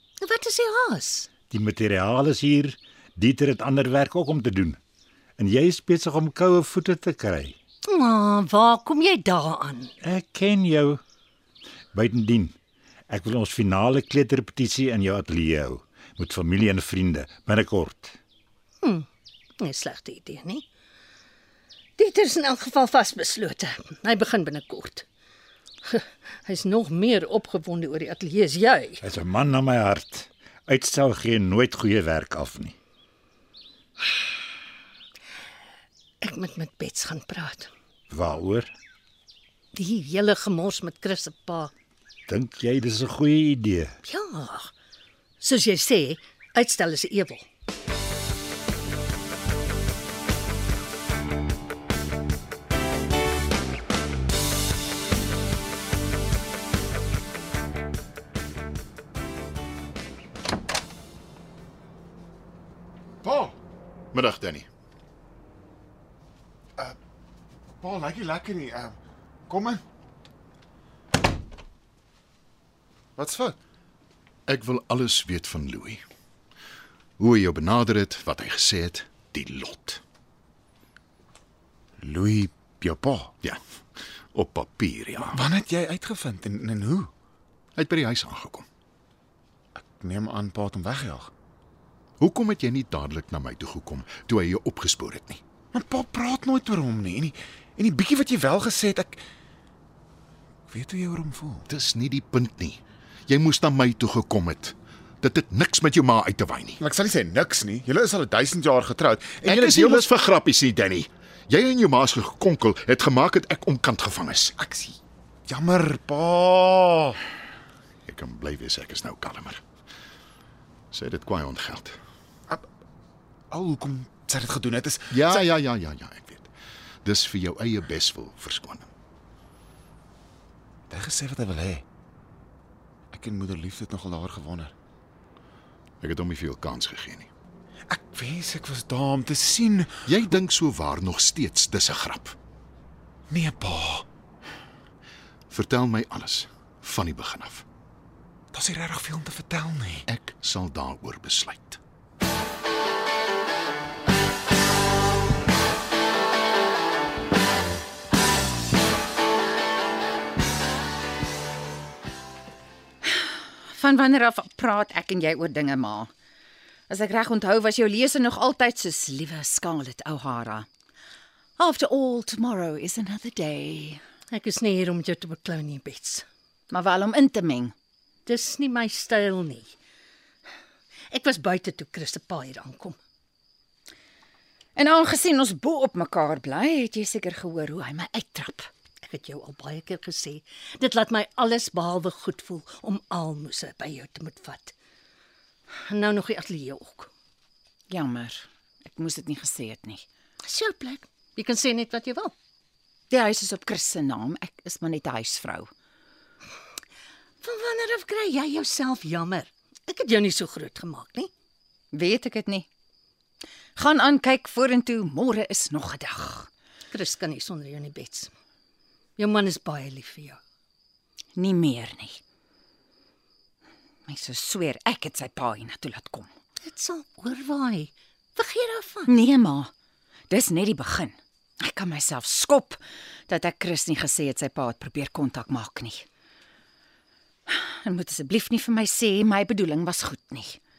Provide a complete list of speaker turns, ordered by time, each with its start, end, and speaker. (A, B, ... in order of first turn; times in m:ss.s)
0:00.2-0:01.4 A
0:01.4-0:04.8 B
0:05.4-0:07.6 B
0:07.8-0:10.0 A
0:10.0-0:11.0 B
0:11.9-0:12.6 B
0:13.1-0:18.1 B
0:18.8-0:19.1 A
0:19.6-0:20.6 A
0:22.0-0:25.1 A
0:25.8-0:29.0 A
0:29.0-0:32.8 B
0:36.2-0:37.7 A
0:38.1-0:38.7 B
0:39.7-0:41.7 A
0:42.3-0:44.0 B
0:44.0-0:44.7 A
0:45.4-0:47.4 A
1:03.2-1:03.6 C
1:04.1-1:04.7 D
1:07.8-1:09.0 C
1:09.5-1:09.8 C
1:13.2-1:13.6 C
1:14.5-1:16.0 D
1:17.2-1:20.0 D
1:22.0-1:23.3 C
1:24.3-1:25.4 D
1:25.3-1:27.1 C
1:27.8-1:28.7 D
1:29.8-1:31.3 C
1:32.2-1:35.4 D
1:35.7-1:39.2 C
1:40.7-1:41.7 C
1:41.7-1:46.8 D
1:46.8-1:50.1 C
1:49.4-1:54.5 D
1:54.6-1:57.2 C
1:58.1-1:59.6 D
2:00.9-2:02.0 D
2:03.5-2:05.4 C
2:05.1-2:06.5 D
2:07.0-2:08.9 D
2:10.9-2:11.8 C
2:13.1-2:14.7 C
2:16.0-2:17.3 D
2:17.9-2:19.9 C
2:20.1-2:22.4 D
2:23.3-2:24.1 C
2:25.5-2:27.6 D
2:28.5-2:30.1 C
2:30.1-2:31.8 D
2:43.0-2:46.1 E
2:46.9-2:50.7 E
2:51.6-2:54.0 E
2:54.3-2:56.3 A
2:56.7-2:57.7 E
2:58.3-2:59.8 A
3:01.1-3:03.0 A
3:04.8-3:08.7 E
3:09.1-3:14.7 A
3:15.9-3:17.1 A
3:17.9-3:20.0 E
3:20.4-3:22.3 A
3:23.1-3:25.7 E
3:27.4-3:31.3 A
3:31.9-3:32.7 E
3:33.8-3:36.5 E
3:36.9-3:38.3 A
3:39.2-3:40.4 A
3:41.4-3:42.2 E
3:44.1-3:46.3 E
3:46.6-3:49.1 A
3:49.1-3:49.7 E
3:50.3-3:56.0 E
3:57.5-4:00.6 E